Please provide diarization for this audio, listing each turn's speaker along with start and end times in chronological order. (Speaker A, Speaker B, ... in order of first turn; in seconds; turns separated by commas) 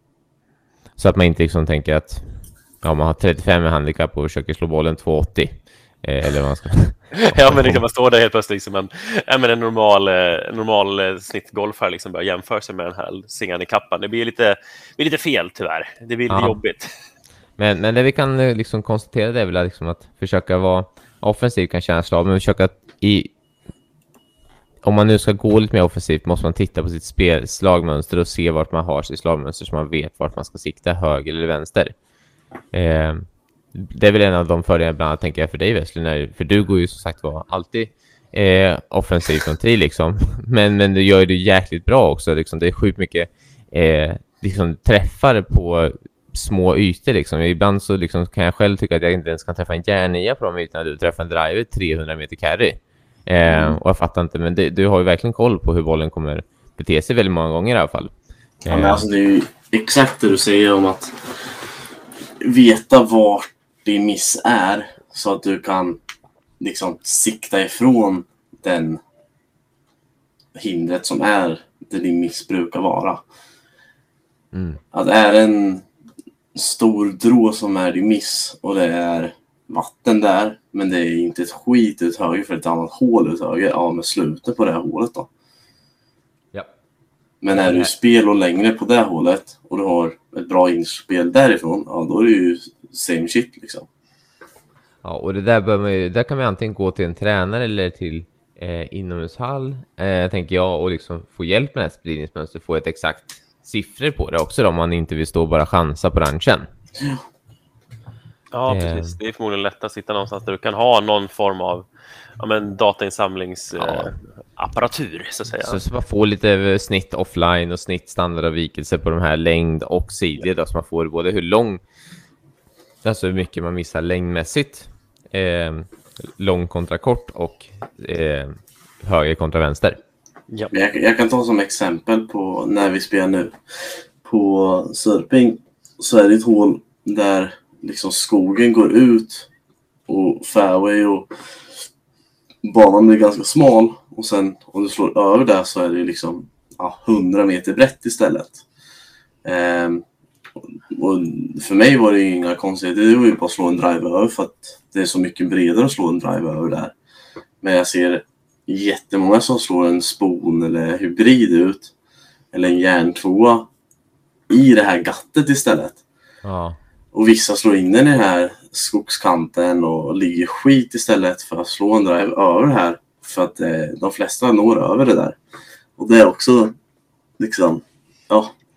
Speaker A: 1.0-7.8, Speaker B: 7.2-16.9, Speaker A: 16.3-16.6, Speaker A: 17.6-23.3, Speaker A: 24.8-31.9, Speaker A: 32.7-58.1, Speaker C: 53.5-53.8, Speaker A: 58.6-59.0, Speaker C: 58.7-61.2, Speaker C: 62.4-66.0, Speaker C: 66.6-69.0, Speaker C: 70.6-73.2, Speaker A: 74.5-74.8, Speaker C: 74.9-75.9, Speaker C: 76.5-85.3, Speaker C: 87.4-93.9, Speaker A: 87.5-87.9, Speaker A: 95.0-106.7, Speaker B: 108.5-111.9, Speaker A: 108.7-109.2, Speaker B: 112.4-115.8, Speaker A: 113.8-114.1, Speaker A: 115.6-121.8, Speaker A: 123.0-130.0, Speaker C: 130.7-139.5, Speaker C: 140.1-141.3, Speaker C: 142.6-148.6, Speaker C: 149.4-150.0, Speaker C: 150.9-156.9, Speaker C: 157.6-161.9, Speaker C: 162.5-163.7, Speaker C: 164.5-166.0, Speaker A: 166.4-166.8, Speaker C: 167.1-175.4, Speaker C: 176.0-176.8, Speaker C: 177.4-178.5